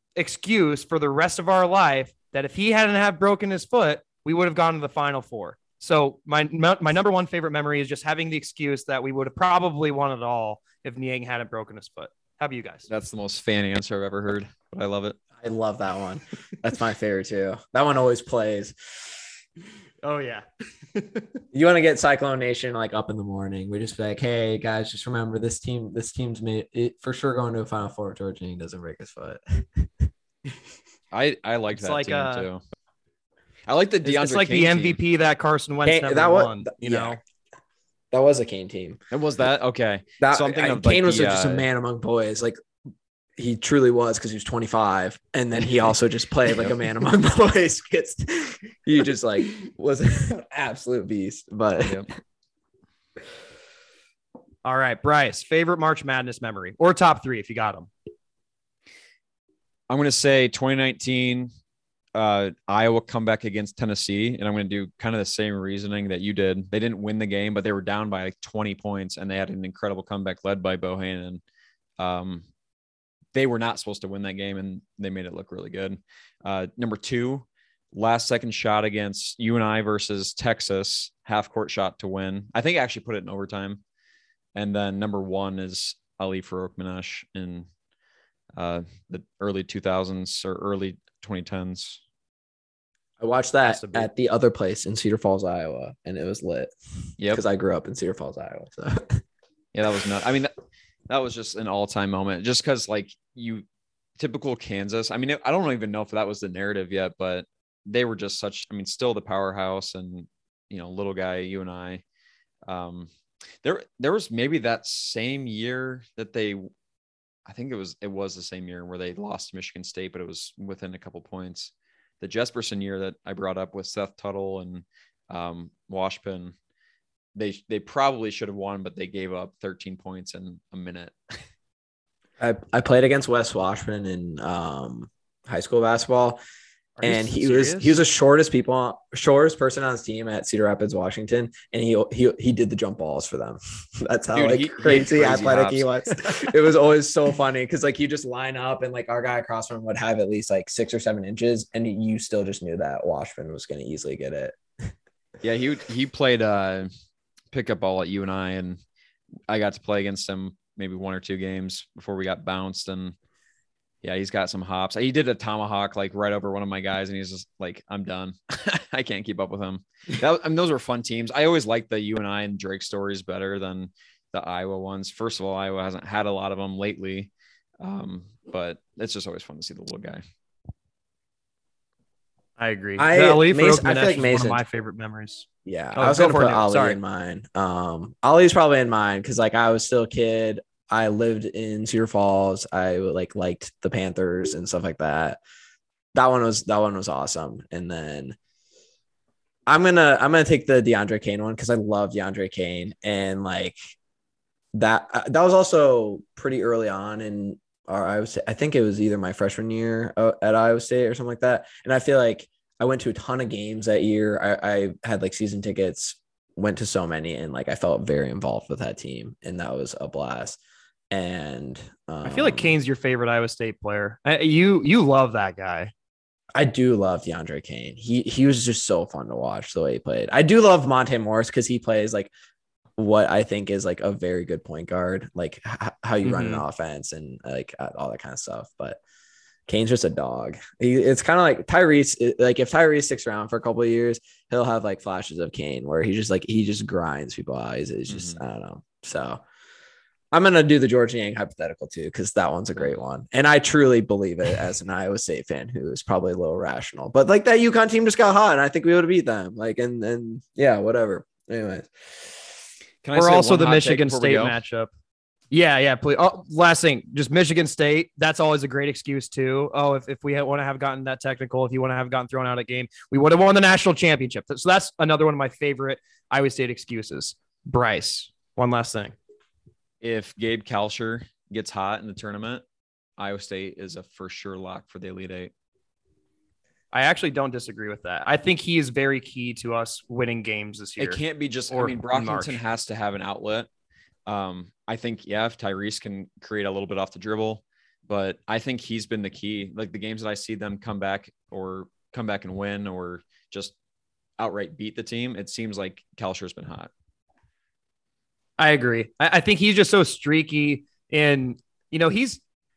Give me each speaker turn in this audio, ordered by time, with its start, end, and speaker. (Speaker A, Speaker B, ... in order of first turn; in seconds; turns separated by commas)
Speaker A: 0.1-12.9, Speaker B: 12.9-15.2, Speaker C: 15.4-19.1, Speaker A: 20.0-21.3, Speaker C: 21.5-29.9, Speaker B: 31.1-32.6, Speaker A: 31.7-32.5, Speaker B: 33.7-35.0, Speaker A: 34.0-37.2, Speaker C: 35.8-37.2, Speaker C: 38.1-39.0, Speaker B: 39.1-41.6, Speaker C: 40.2-42.6, Speaker C: 43.4-52.0, Speaker A: 54.6-57.9, Speaker B: 59.9-61.5, Speaker B: 62.1-71.4, Speaker B: 72.0-72.4, Speaker B: 73.3-83.8, Speaker B: 84.5-87.7, Speaker B: 88.6-92.0, Speaker C: 93.2-96.7, Speaker A: 93.6-94.1, Speaker C: 97.3-99.2, Speaker B: 99.7-100.5, Speaker B: 101.1-103.6, Speaker B: 104.2-112.0, Speaker B: 112.7-113.1, Speaker B: 113.6-116.7, Speaker B: 117.5-126.5, Speaker B: 127.3-131.1, Speaker C: 132.4-136.4, Speaker A: 137.0-138.0, Speaker C: 137.0-154.6, Speaker B: 144.3-146.3, Speaker B: 155.4-156.9, Speaker B: 157.5-158.8, Speaker B: 159.5-163.1, Speaker B: 164.0-180.2, Speaker A: 182.6-187.0, Speaker C: 183.0-184.6, Speaker C: 185.7-195.4, Speaker C: 196.1-198.4, Speaker C: 199.7-203.8, Speaker C: 204.7-220.6, Speaker C: 221.1-222.8, Speaker A: 222.2-225.9, Speaker C: 226.6-232.3, Speaker C: 233.0-239.0, Speaker A: 236.2-236.6, Speaker C: 239.7-249.4, Speaker B: 248.1-248.4, Speaker C: 250.3-262.3, Speaker B: 263.0-264.6, Speaker A: 263.1-264.9, Speaker A: 265.5-279.1, Speaker B: 280.0-282.6, Speaker B: 283.2-285.5, Speaker A: 286.9-291.2, Speaker B: 291.0-293.7, Speaker A: 291.7-292.6, Speaker B: 294.3-303.7, Speaker B: 304.4-306.9, Speaker A: 308.6-312.4